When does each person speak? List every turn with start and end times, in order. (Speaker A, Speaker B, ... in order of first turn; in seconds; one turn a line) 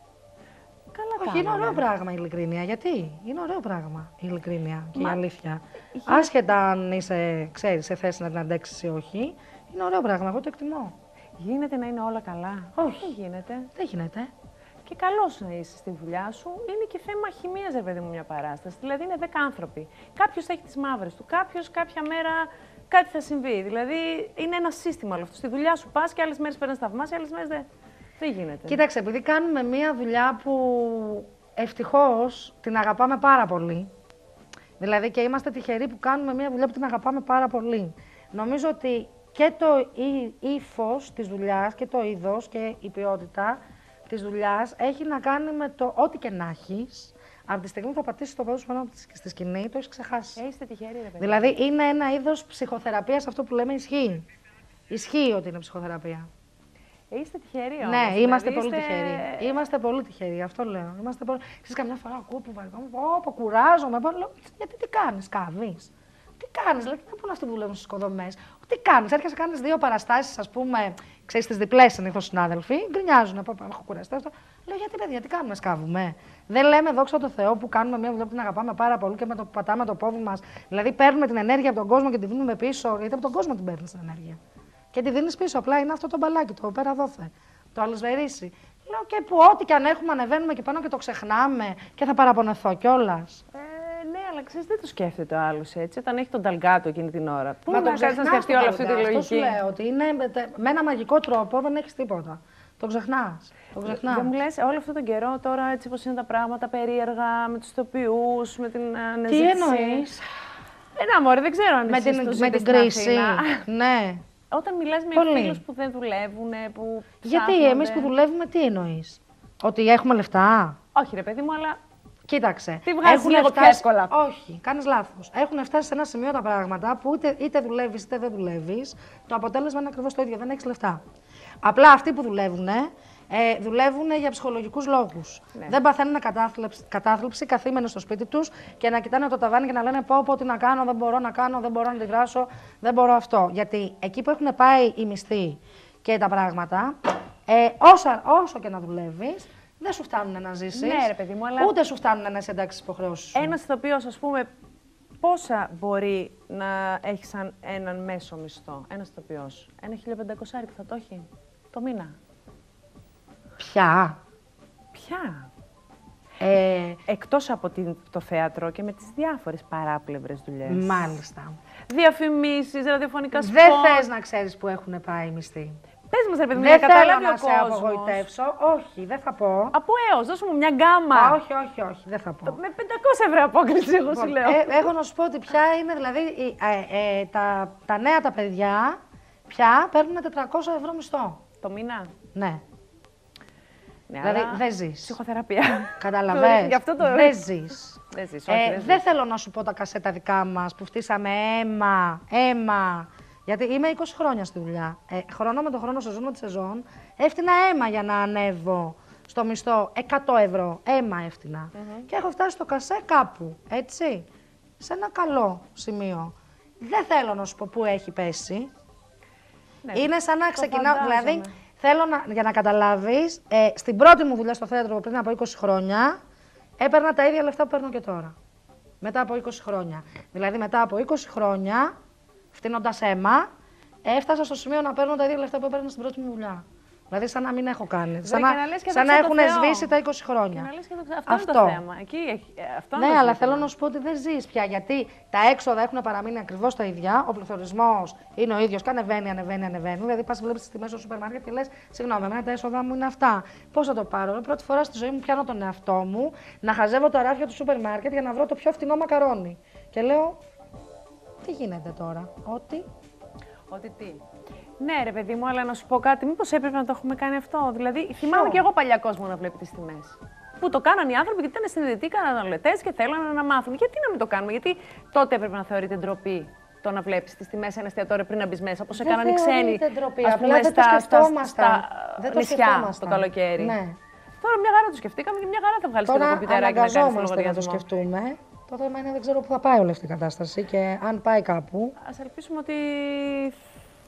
Speaker A: 0.9-1.9
Speaker B: 1.2-10.9
Speaker A: 4.9-5.2
Speaker A: 5.9-6.3
Speaker A: 11.4-13.7
Speaker B: 12.8-13.1
Speaker B: 13.7-14.3
Speaker A: 14.8-27.6
Speaker A: 28.2-28.8
Speaker B: 28.7-33.9
Speaker B: 34.8-50.4
Speaker A: 50.4-51.6
Speaker B: 51.2-54.2
Speaker B: 54.9-56.3
Speaker A: 57.1-59.6
Speaker B: 57.8-84.4
Speaker B: 84.9-93.4
Speaker A: 93.5-99.6
Speaker B: 97.7-104.3
Speaker A: 103.8-110.1
Speaker B: 109.3-110.2
Speaker A: 110.9-113.6
Speaker B: 111.9-114.2
Speaker A: 114.5-118.1
Speaker B: 115.1-115.6
Speaker B: 117.2-120.8
Speaker A: 120.9-121.8
Speaker B: 122.3-131.0
Speaker A: 122.8-124.1
Speaker B: 131.6-146.9
Speaker B: 147.5-153.6
Speaker A: 150.7-151.7
Speaker A: 153.3-154.5
Speaker A: 155.2-162.1
Speaker B: 163.6-164.2
Speaker A: 164.9-165.5
Speaker B: 166.4-167.0
Speaker A: 167.1-171.0
Speaker B: 170.6-171.6
Speaker A: 171.9-174.1
Speaker B: 173.3-175.8
Speaker A: 176.1-178.2
Speaker B: 176.5-179.7
Speaker A: 179.7-181.4
Speaker B: 181.1-182.6
Speaker A: 182.4-184.9
Speaker B: 184.1-189.0
Speaker B: 189.5-191.4
Speaker A: 191.6-192.1
Speaker B: 192.3-192.6
Speaker A: 194.1-197.4
Speaker B: 194.2-195.2
Speaker B: 196.0-214.3
Speaker A: 198.1-199.0
Speaker A: 211.7-212.1
Speaker B: 214.8-218.7
Speaker A: 219.8-221.5
Speaker B: 219.9-226.2
Speaker B: 226.8-228.3
Speaker B: 229.0-231.9
Speaker B: 232.5-233.5
Speaker B: 234.0-240.7
Speaker A: 238.2-239.9
Speaker A: 240.5-243.7
Speaker B: 241.3-241.8
Speaker B: 242.9-260.4
Speaker B: 261.4-262.9
Speaker A: 263.7-264.2
Speaker A: 264.8-283.8
Speaker B: 268.2-268.6
Speaker B: 278.9-284.0
Speaker A: 284.4-287.8
Speaker B: 286.1-291.9
Speaker A: 292.0-293.6